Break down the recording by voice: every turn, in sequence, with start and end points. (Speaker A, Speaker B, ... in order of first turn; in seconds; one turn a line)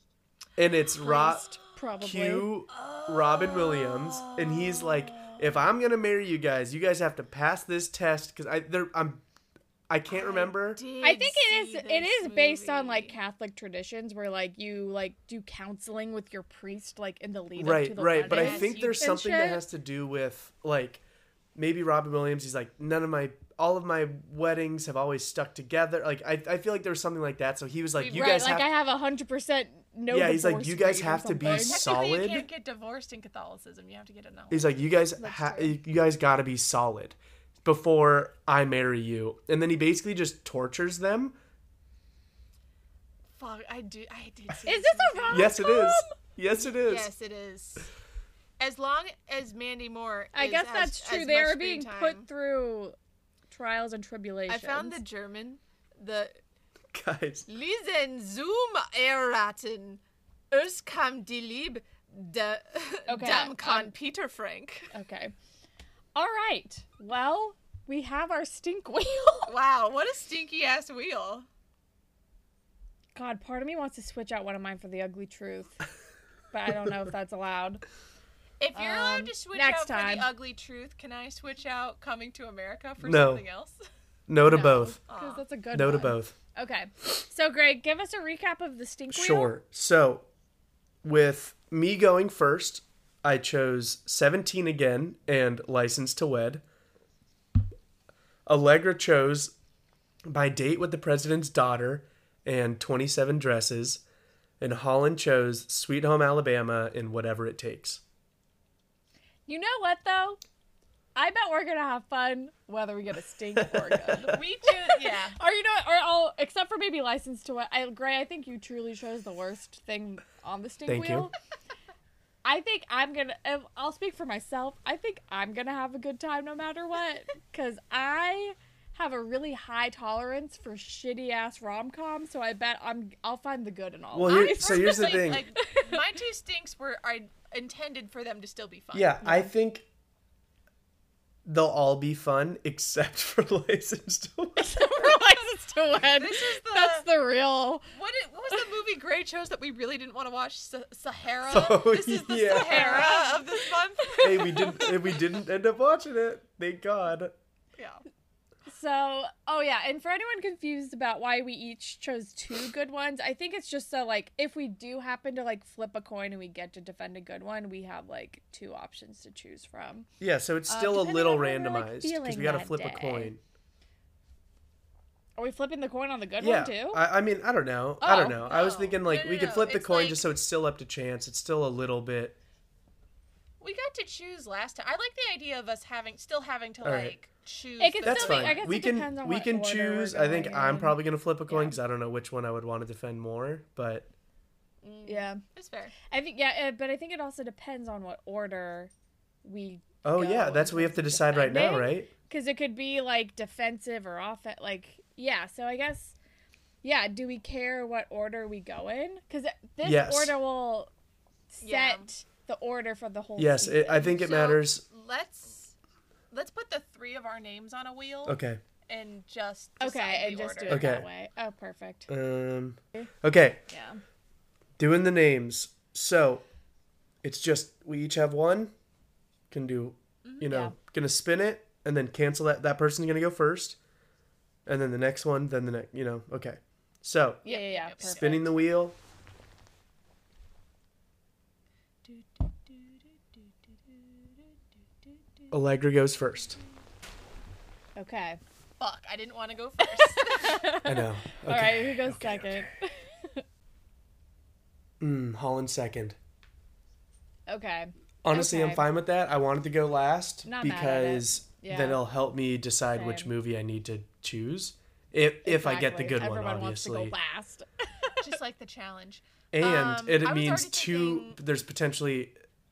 Speaker A: 0.6-1.5
Speaker B: 1.0-2.5
Speaker A: 2.0-9.2
Speaker C: 2.7-5.5
Speaker A: 9.9-10.8
Speaker C: 10.1-13.1
Speaker B: 11.0-19.6
Speaker A: 17.6-21.0
Speaker C: 18.2-19.0
Speaker A: 21.5-28.7
Speaker C: 28.0-28.5
Speaker B: 28.1-31.9
Speaker A: 30.1-32.5
Speaker C: 31.4-34.7
Speaker A: 34.5-41.4
Speaker B: 35.2-35.8
Speaker C: 43.4-45.6
Speaker B: 44.6-46.1
Speaker A: 45.3-47.1
Speaker C: 46.6-47.9
Speaker C: 48.6-52.3
Speaker B: 50.3-53.0
Speaker B: 53.5-55.0
Speaker C: 54.5-56.4
Speaker A: 56.9-57.5
Speaker C: 57.5-64.9
Speaker B: 63.1-63.9
Speaker B: 64.9-65.3
Speaker B: 66.1-69.5
Speaker C: 69.5-71.5
Speaker B: 73.1-75.8
Speaker B: 76.5-77.8
Speaker C: 78.6-83.8
Speaker B: 78.7-80.3
Speaker A: 83.0-83.4
Speaker A: 84.3-85.0
Speaker B: 84.4-89.5
Speaker C: 85.1-85.4
Speaker A: 85.7-86.4
Speaker A: 89.1-90.3
Speaker A: 91.0-96.6
Speaker A: 98.5-99.5
Speaker A: 100.3-104.0
Speaker A: 104.6-108.0
Speaker B: 109.5-110.4
Speaker B: 111.1-121.3
Speaker A: 113.6-114.0
Speaker C: 114.2-115.4
Speaker A: 120.9-121.3
Speaker B: 122.4-136.0
Speaker A: 134.1-135.4
Speaker C: 134.3-139.2
Speaker A: 138.9-139.8
Speaker B: 139.2-139.5
Speaker A: 141.4-144.8
Speaker B: 144.6-147.9
Speaker C: 146.0-147.1
Speaker C: 147.9-154.9
Speaker A: 151.5-153.1
Speaker B: 152.6-155.1
Speaker A: 154.2-157.3
Speaker C: 157.8-158.0
Speaker B: 158.7-170.1
Speaker A: 170.2-173.4
Speaker B: 170.7-173.3
Speaker B: 175.4-177.0
Speaker A: 176.4-182.4
Speaker B: 178.0-178.4
Speaker C: 178.3-180.3
Speaker C: 183.6-188.6
Speaker A: 186.8-187.1
Speaker B: 187.8-191.8
Speaker A: 188.0-194.1
Speaker C: 194.8-195.9
Speaker B: 195.1-195.4
Speaker B: 196.1-198.9
Speaker B: 199.4-206.1
Speaker A: 200.0-202.1
Speaker B: 206.8-210.9
Speaker A: 209.8-210.4
Speaker B: 211.5-214.1
Speaker C: 211.6-212.1
Speaker A: 213.4-214.8
Speaker C: 214.0-215.7
Speaker C: 216.3-220.9
Speaker A: 218.3-218.6
Speaker B: 219.8-222.1
Speaker A: 220.7-221.1
Speaker A: 222.1-223.6
Speaker B: 223.7-224.0
Speaker A: 224.8-226.4
Speaker A: 227.2-228.7
Speaker A: 229.5-233.8
Speaker B: 230.4-230.7
Speaker A: 234.7-237.4
Speaker C: 237.4-238.4
Speaker B: 237.4-238.5
Speaker A: 238.0-238.9
Speaker C: 242.1-243.0
Speaker A: 245.5-246.6
Speaker B: 247.9-248.4
Speaker C: 248.8-250.7
Speaker B: 249.9-253.4
Speaker A: 250.9-252.7
Speaker A: 255.0-256.2
Speaker B: 257.5-258.9
Speaker A: 258.2-267.1
Speaker B: 260.4-262.0
Speaker B: 262.9-263.3
Speaker B: 265.4-268.2
Speaker C: 268.2-271.4
Speaker A: 269.5-272.3